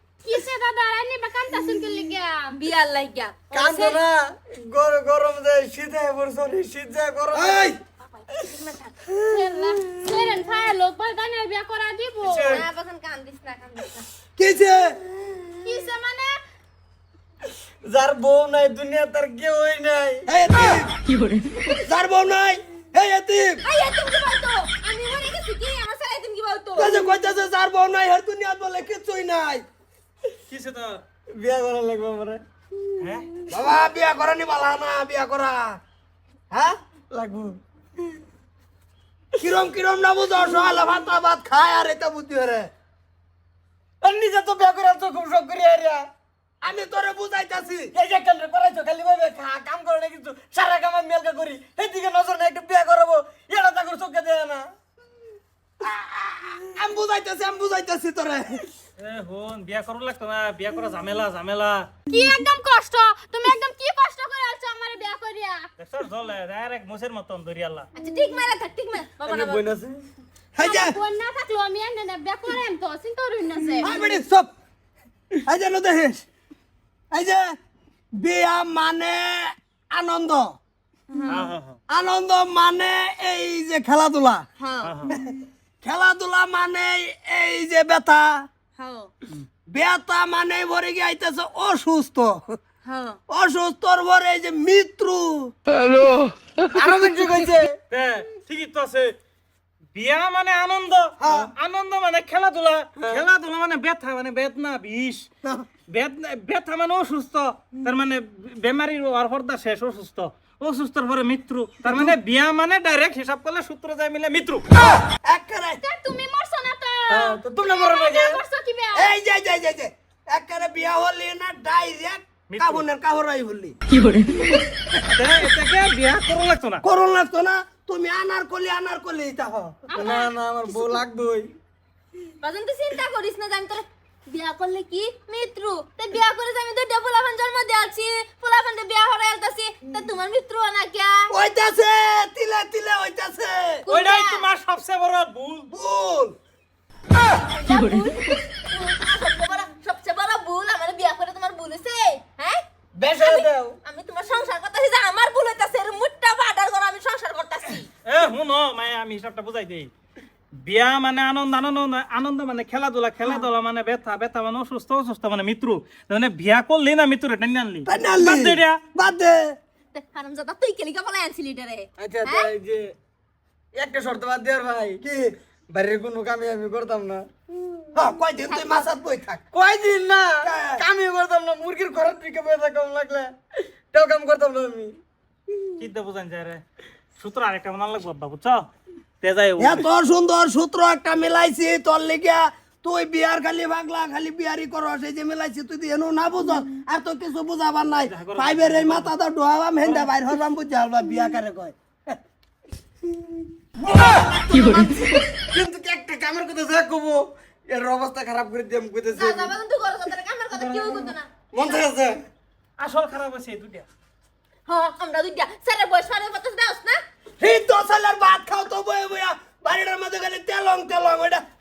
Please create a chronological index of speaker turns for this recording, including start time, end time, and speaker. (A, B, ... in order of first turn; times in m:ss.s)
0:00.2-0:02.5 A
0:02.5-0:04.0 B
0:03.5-0:07.7 C
0:07.3-0:07.8 D
0:08.2-0:08.9 B
0:09.2-0:10.1 C
0:09.3-0:12.5 A
0:12.2-0:12.6 E
0:12.4-0:14.0 B
0:14.4-0:15.0 D
0:15.6-0:16.4 A
0:17.8-0:20.3 C
0:20.2-0:21.0 D
0:21.8-0:23.6 D
0:23.6-0:27.0 B
0:26.8-0:29.6 D
0:30.5-0:31.0 E
0:31.3-0:32.4 C
0:33.0-0:33.3 E
0:33.5-0:35.8 D
0:37.1-0:37.6 C
0:39.4-0:42.7 D
0:44.0-0:46.0 C
0:46.6-0:47.9 D
0:47.9-0:54.7 C
0:55.8-0:58.7 D
0:59.0-1:01.9 E
1:02.1-1:05.7 A
1:05.8-1:07.9 E
1:08.0-1:09.6 B
1:09.2-1:10.0 C
1:10.5-1:11.0 D
1:10.6-1:13.8 A
1:13.5-1:13.9 B
1:13.8-1:14.5 D
1:15.4-1:16.2 D
1:17.1-1:17.6 D
1:18.1-1:20.6 D
1:21.1-1:21.5 B
1:21.3-1:21.8 E
1:21.9-1:24.4 D
1:24.6-1:25.0 B
1:24.8-1:25.1 E
1:25.8-1:28.5 D
1:28.8-1:29.1 B
1:29.7-1:32.6 D
1:32.8-1:33.2 B
1:33.3-1:35.5 D
1:36.6-1:37.8 C
1:37.9-1:39.2 E
1:39.9-1:45.3 E
1:41.2-1:41.5 D
1:45.9-1:54.7 E
1:55.2-1:55.8 D
1:55.8-1:59.0 A
1:57.1-1:58.4 C
1:58.9-2:03.7 D
2:02.5-2:02.8 E
2:04.5-2:05.0 D
2:05.1-2:06.8 E
2:06.8-2:09.9 D
2:09.9-2:10.3 B
2:09.9-2:11.5 C
2:12.4-2:21.3 B
2:21.3-2:23.8 D
2:23.8-2:24.4 B
2:23.9-2:25.7 E
2:25.7-2:26.3 D
2:27.5-2:32.6 B
2:32.9-2:33.8 C
2:33.2-2:37.9 B
2:38.0-2:39.9 E
2:40.5-2:48.8 E
2:47.8-2:49.5 D
2:49.9-2:52.5 B
2:52.0-2:52.9 C
2:53.7-2:55.0 C
2:55.0-2:55.3 D
2:55.7-2:57.3 C
2:57.9-2:59.4 D
2:59.5-3:03.3 C
3:00.4-3:00.8 D
3:03.9-3:04.9 C
3:05.8-3:06.6 E
3:07.2-3:08.7 E
3:09.2-3:09.8 E
3:09.6-3:22.2 D
3:18.1-3:19.1 E
3:19.8-3:20.1 E
3:23.9-3:24.7 D
3:24.0-3:29.5 C
3:29.1-3:31.8 B
3:30.8-3:31.1 E
3:31.5-3:32.2 C
3:32.8-3:33.9 E
3:34.6-3:37.0 B
3:37.4-3:41.4 D